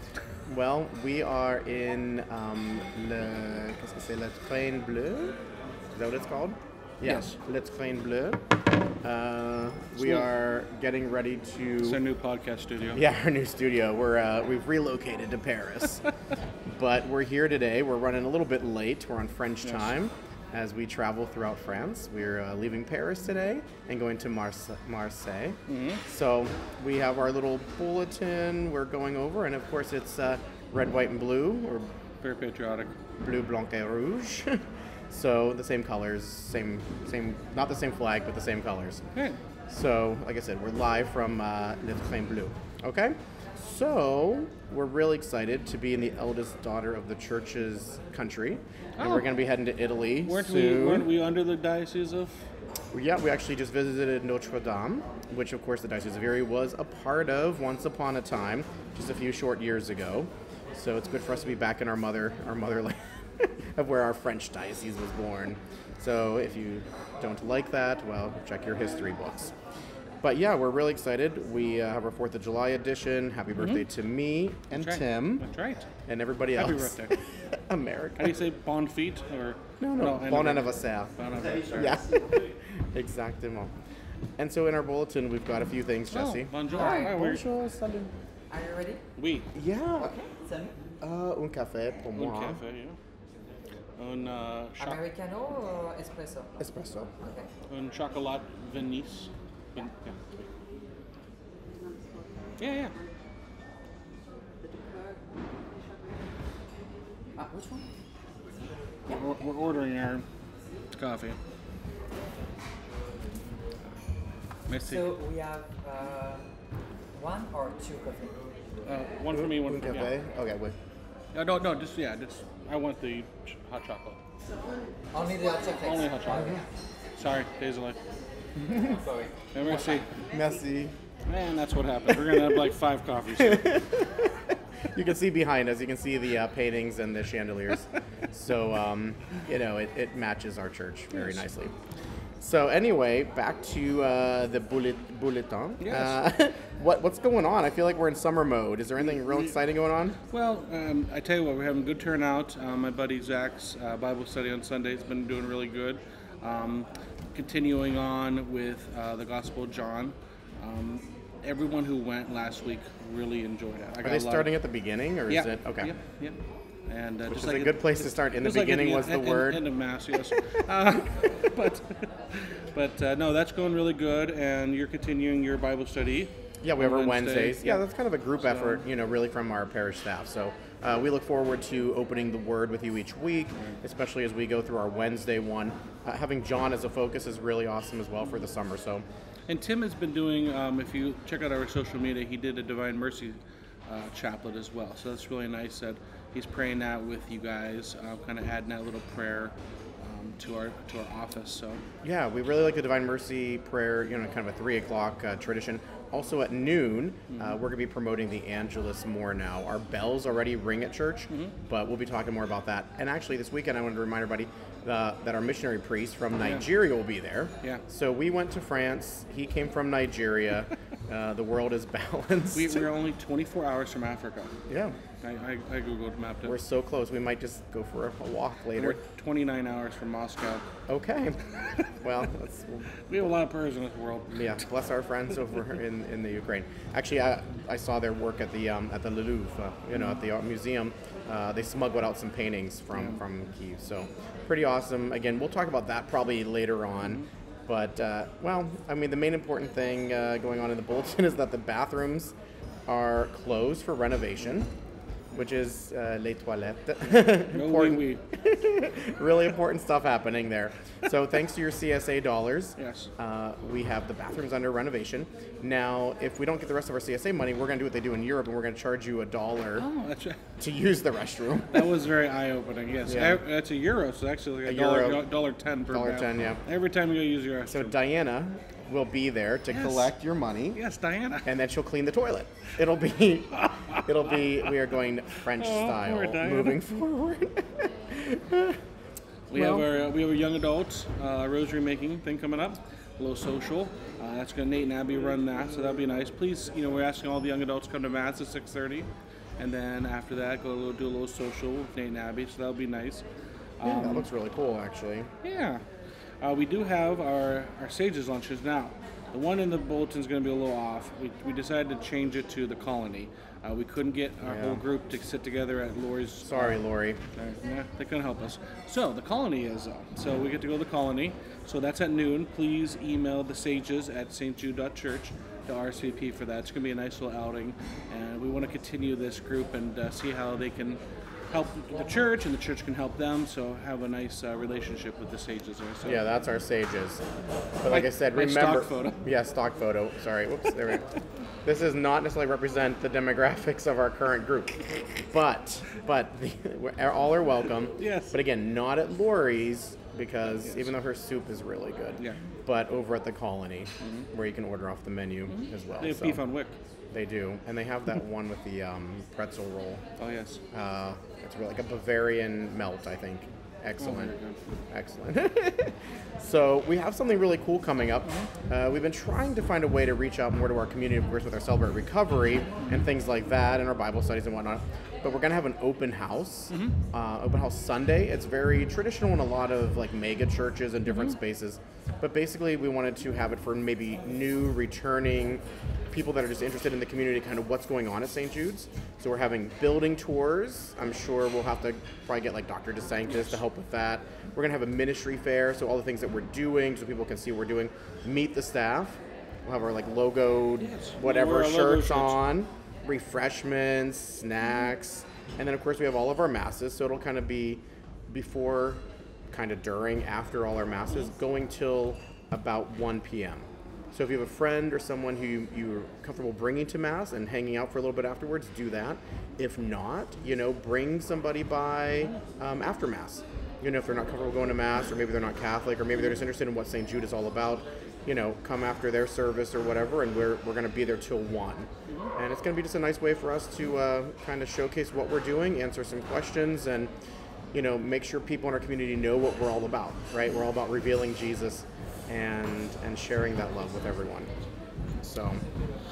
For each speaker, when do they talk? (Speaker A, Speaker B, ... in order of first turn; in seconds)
Speaker A: 0.5-5.4, 5.9-8.4, 9.0-12.0, 12.9-16.1, 16.7-31.9, 33.2-39.0, 39.7-51.1, 52.9-69.5, 70.2-75.5, 76.1-78.3, 79.8-81.1, 81.7-83.7, 84.4-88.1, 89.5-90.1, 91.0-92.6, 96.6-97.1, 119.3-120.8, 128.6-129.0, 130.3-130.9, 133.4-141.7, 142.4-150.2, 164.0-165.9, 167.3-169.6, 176.6-189.1, 202.0-222.9, 224.7-224.9, 226.4-229.0, 230.9-231.4, 232.0-232.9, 234.3-252.3, 252.9-254.7, 255.3-269.9, 270.6-271.9, 273.1-273.4, 274.6-275.2, 275.9-276.6, 277.7-280.8, 281.4-288.8, 289.5-289.9, 303.8-305.3, 314.4-314.8, 316.4-317.2, 336.0-337.2, 337.8-341.1, 341.6-356.4, 357.1-360.0, 360.7-364.3, 364.9-437.1, 437.7-444.5, 445.2-445.6
Speaker B: 7.0-7.4, 10.0-10.3, 11.8-13.0, 19.6-19.9, 25.7-26.0, 32.2-32.9, 49.0-49.3, 50.2-52.5, 73.5-73.8, 74.7-75.9, 76.5-77.1, 78.2-82.0, 86.1-87.5, 89.2-89.5, 92.1-93.0, 94.0-95.0, 97.7-100.4, 102.6-102.9, 109.1-110.2, 110.9-111.4, 114.7-115.1, 118.8-120.1, 121.3-124.2, 125.5-126.6, 127.2-128.0, 129.5-130.1, 131.3-133.7, 141.1-141.4, 145.8-146.2, 149.0-149.5, 150.3-164.5, 165.3-177.8, 178.4-178.8, 189.5-201.8, 207.3-207.6, 222.5-224.5, 225.2-226.6, 228.8-230.6, 231.6-231.9, 233.1-234.7, 239.9-240.2, 257.5-258.2, 262.8-263.1, 269.8-270.4, 271.7-278.0, 279.7-280.1, 280.8-281.5, 283.6-284.0, 285.6-286.8, 289.5-303.2, 303.8-304.3, 305.4-305.8, 306.4-316.8, 317.4-331.0, 331.5-336.2, 337.9-339.2, 348.0-348.4, 354.0-354.3, 355.5-356.7, 360.2-360.6, 364.0-364.6, 368.2-368.5, 376.7-376.9, 393.2-393.6, 400.8-402.4, 432.1-432.3
Speaker C: 86.6-87.2, 88.5-89.0, 90.0-90.8, 94.8-96.6, 97.2-97.5, 107.3-107.8, 114.8-116.4, 117.1-118.4, 125.1-126.6, 128.8-129.3